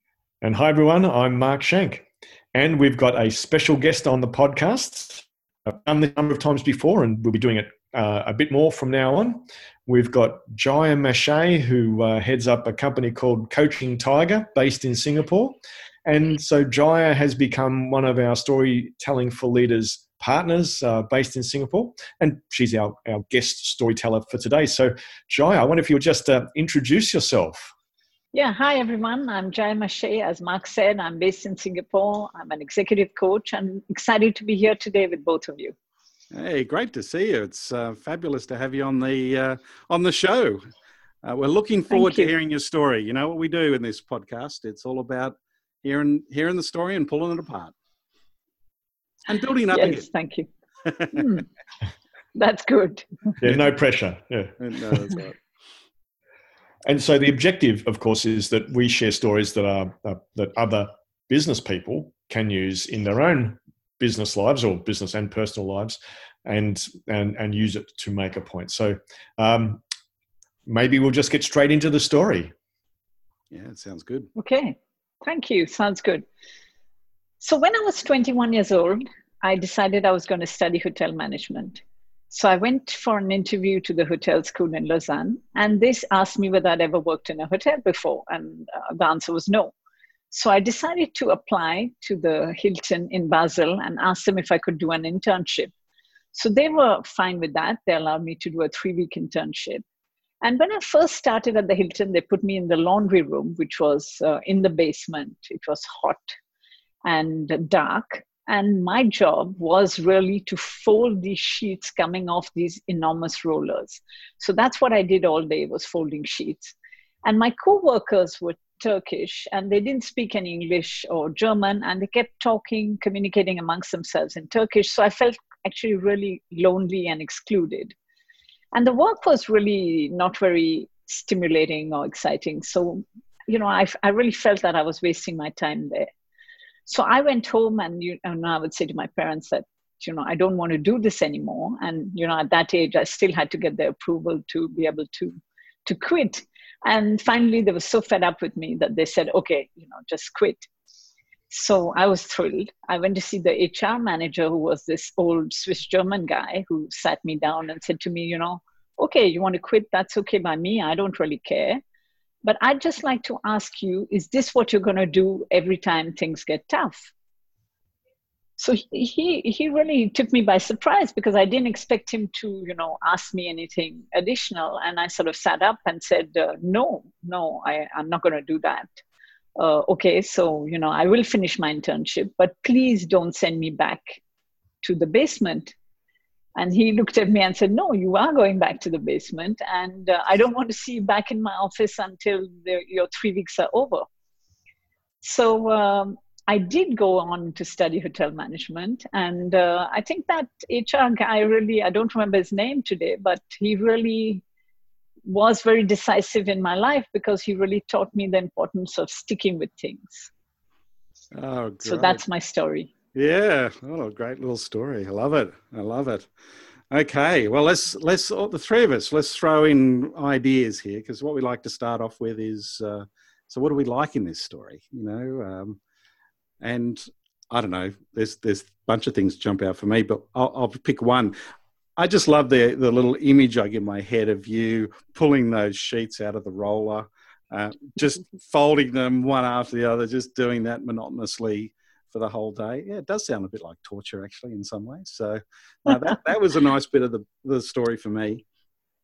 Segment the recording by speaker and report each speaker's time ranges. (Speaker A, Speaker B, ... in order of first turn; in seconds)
Speaker A: 0.4-27.7, 53.4-55.1, 56.9-69.8, 70.7-72.5
Speaker B: 28.3-35.7, 41.9-42.3, 49.7-50.5, 51.1-51.5, 52.4-53.4, 74.4-76.2, 77.4-89.7, 90.3-95.7, 96.3-99.8, 100.4-106.3, 107.0-128.0, 128.7-136.1, 136.9-150.7, 151.5-161.8, 162.4-167.1, 168.6-178.9, 179.6-184.2, 184.8-185.8, 186.6-194.1, 195.2-204.4, 205.3-210.3, 211.8-212.9
Speaker C: 36.3-40.6, 41.2-47.7, 49.3-50.1, 50.9-51.3, 54.6-55.4, 73.5-74.3, 211.3-212.2, 213.2-216.3, 216.9-225.8, 226.6-231.4, 232.0-248.4